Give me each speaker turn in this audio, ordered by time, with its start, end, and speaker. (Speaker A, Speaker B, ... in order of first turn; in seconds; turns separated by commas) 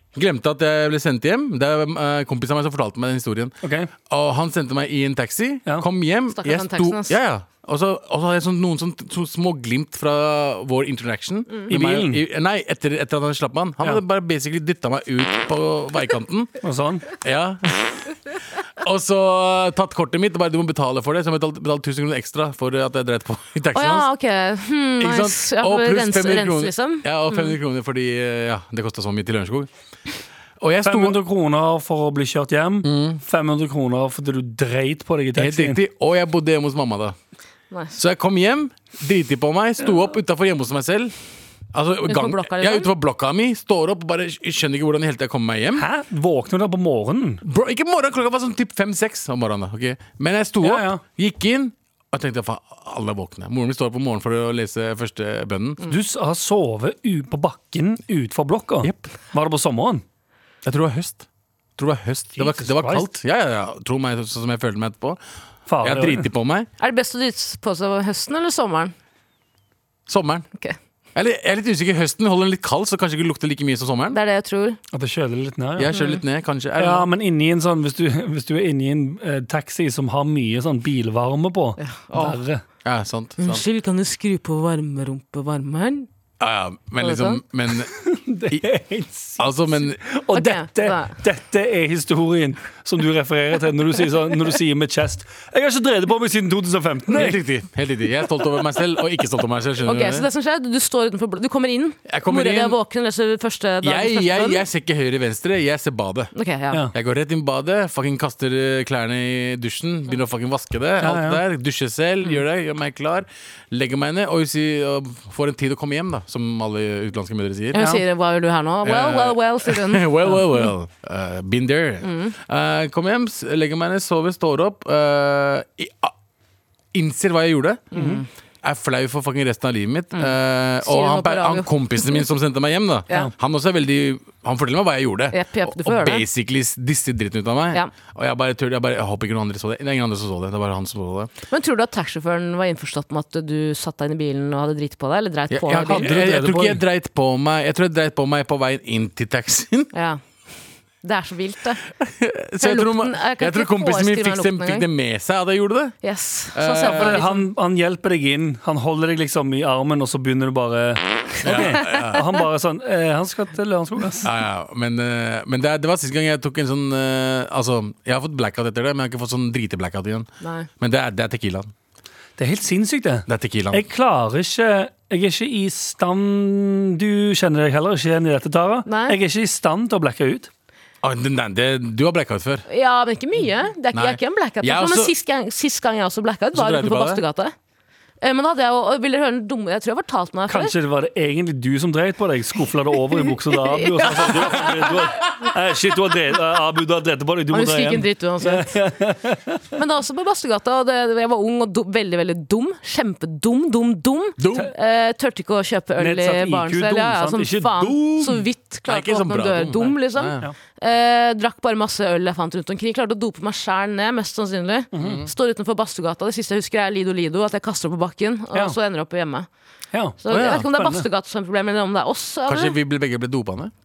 Speaker A: 0.1-3.6, Speaker B: 3.6-3.9, Speaker A: 4.1-16.5, Speaker C: 6.3-7.2, Speaker B: 11.7-12.2, Speaker B: 16.6-17.1, Speaker A: 17.1-17.8, Speaker A: 18.8-24.1, Speaker C: 23.7-27.6, Speaker A: 25.0-29.7, Speaker A: 30.6-31.2, Speaker B: 30.9-35.8, Speaker A: 32.8-33.2, Speaker A: 35.4-37.2, Speaker C: 37.7-38.0, Speaker A: 38.0-41.1, Speaker A: 41.7-45.9, Speaker C: 42.1-42.9, Speaker B: 45.8-47.4, Speaker A: 47.4-55.8, Speaker B: 50.6-51.0, Speaker B: 55.9-60.0, Speaker A: 60.6-61.3, Speaker A: 61.8-65.2, Speaker B: 62.4-63.1, Speaker B: 65.7-66.3, Speaker A: 65.8-66.7, Speaker C: 66.8-68.9, Speaker A: 70.1-70.5, Speaker A: 71.2-74.2, Speaker C: 74.1-74.8, Speaker B: 74.9-75.9, Speaker A: 75.8-77.1, Speaker C: 75.9-76.2, Speaker B: 76.8-82.6, Speaker C: 81.8-82.4, Speaker A: 82.8-83.6, Speaker C: 83.4-86.1, Speaker A: 86.4-87.9, Speaker C: 87.0-87.4, Speaker B: 87.9-89.5, Speaker A: 89.4-90.0, Speaker B: 90.0-97.4, Speaker C: 90.3-91.2, Speaker A: 97.1-100.3, Speaker C: 99.8-104.6, Speaker A: 102.1-102.8, Speaker A: 103.8-106.3, Speaker C: 106.3-106.8, Speaker A: 106.9-118.0, Speaker B: 111.0-111.4, Speaker C: 117.7-120.7, Speaker A: 118.8-126.1, Speaker C: 122.0-122.3, Speaker A: 126.9-127.9, Speaker C: 127.9-128.3, Speaker B: 127.9-128.2, Speaker A: 128.6-141.3, Speaker C: 130.1-132.2, Speaker C: 135.3-136.2, Speaker C: 141.5-146.1, Speaker A: 145.5-149.9, Speaker B: 145.8-146.8, Speaker C: 149.9-150.2, Speaker C: 151.0-151.8, Speaker A: 152.0-156.0, Speaker C: 152.6-154.9, Speaker C: 156.0-157.5, Speaker A: 156.5-157.3, Speaker B: 156.8-164.3, Speaker A: 161.4-162.3, Speaker C: 161.5-162.1, Speaker A: 164.2-170.3, Speaker C: 170.4-170.7, Speaker A: 170.8-171.7, Speaker B: 172.4-180.5, Speaker A: 173.3-173.8, Speaker C: 178.9-179.2, Speaker A: 181.0-182.7, Speaker C: 182.7-187.5, Speaker A: 183.9-185.1, Speaker A: 186.5-187.2, Speaker C: 188.2-190.7, Speaker B: 190.5-199.6, Speaker C: 193.2-195.3, Speaker C: 197.5-198.8, Speaker C: 199.8-219.5, Speaker A: 204.4-204.7, Speaker B: 206.0-208.4, Speaker A: 208.9-210.5, Speaker B: 214.9-215.2, Speaker A: 215.0-215.3, Speaker B: 219.9-221.1, Speaker C: 220.2-222.8, Speaker A: 220.3-220.7, Speaker A: 222.5-223.7